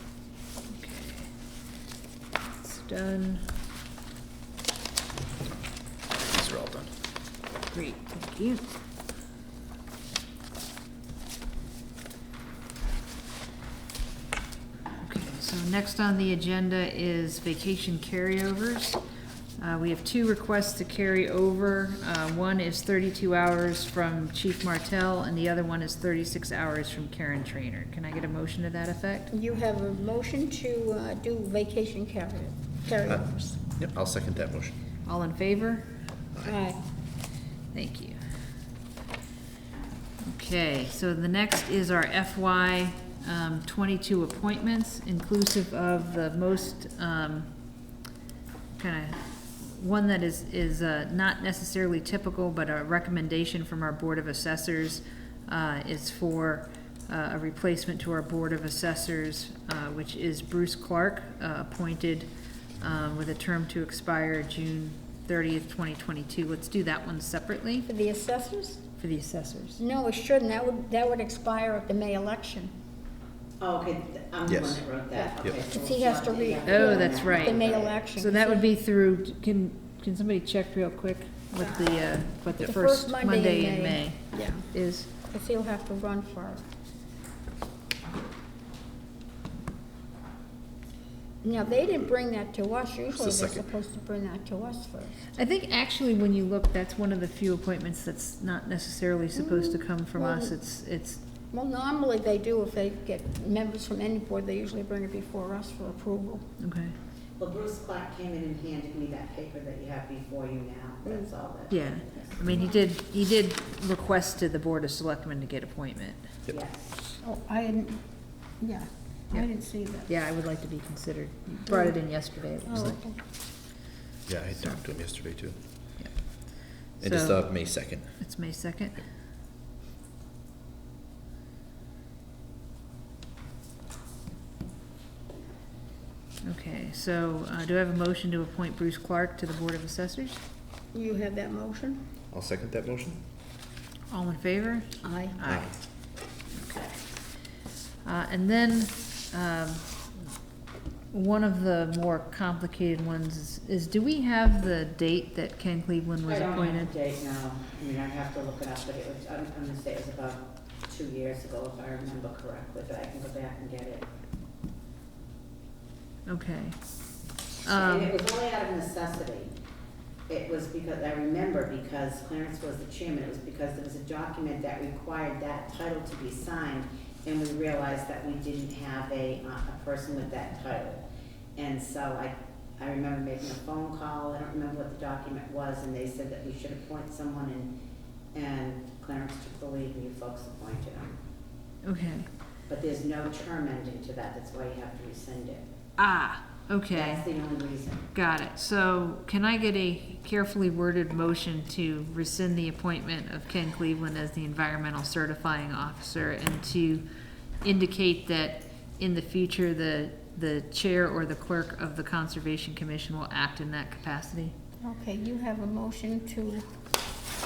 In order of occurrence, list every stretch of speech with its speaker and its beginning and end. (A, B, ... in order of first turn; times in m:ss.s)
0:00.7-0:01.3 A
0:02.5-0:03.4 A
0:06.2-0:06.9 B
0:07.7-0:08.7 A
0:15.0-0:19.0 A
0:19.6-0:29.3 A
0:29.3-0:33.6 C
0:33.1-0:34.8 B
0:35.0-0:35.9 A
0:36.4-0:36.8 C
0:37.7-0:38.2 A
0:40.2-0:47.5 A
0:48.7-1:02.3 A
1:02.8-1:07.9 A
1:07.8-1:08.8 C
1:09.0-1:09.8 A
1:09.8-1:12.7 C
1:13.6-1:18.0 D
1:14.5-1:14.8 B
1:15.1-1:18.7 C
1:16.6-1:17.6 A
1:18.2-1:25.1 A
1:21.6-1:22.0 C
1:22.6-1:24.7 C
1:25.3-1:26.6 C
1:31.4-1:35.2 C
1:33.1-1:33.6 B
1:35.4-1:41.2 A
1:39.4-1:40.6 C
1:41.5-1:46.5 C
1:46.6-1:46.9 A
1:47.4-1:52.3 D
1:51.7-1:56.2 A
1:56.5-1:56.9 D
1:57.2-1:58.0 C
1:58.6-2:00.1 C
2:00.1-2:03.0 A
2:01.5-2:01.9 C
2:02.7-2:03.2 C
2:04.2-2:05.6 B
2:07.0-2:07.6 A
2:07.0-2:08.1 B
2:08.1-2:09.0 A
2:16.4-2:20.4 A
2:20.9-2:22.0 C
2:22.3-2:23.2 B
2:24.1-2:25.8 A
2:25.0-2:25.4 C
2:25.5-2:25.7 B
2:26.5-2:27.0 A
2:28.0-2:30.1 A
2:31.1-2:36.9 A
2:36.3-2:44.0 D
2:46.3-2:46.8 A
2:47.6-2:48.1 A
2:47.6-2:49.5 D
2:50.3-3:01.0 D
3:01.6-3:07.7 D
3:08.3-3:11.2 D
3:11.8-3:12.3 A
3:12.7-3:15.6 D
3:16.0-3:17.3 A
3:16.9-3:18.1 D
3:18.1-3:27.0 A
3:27.6-3:34.5 A
3:34.8-3:36.7 C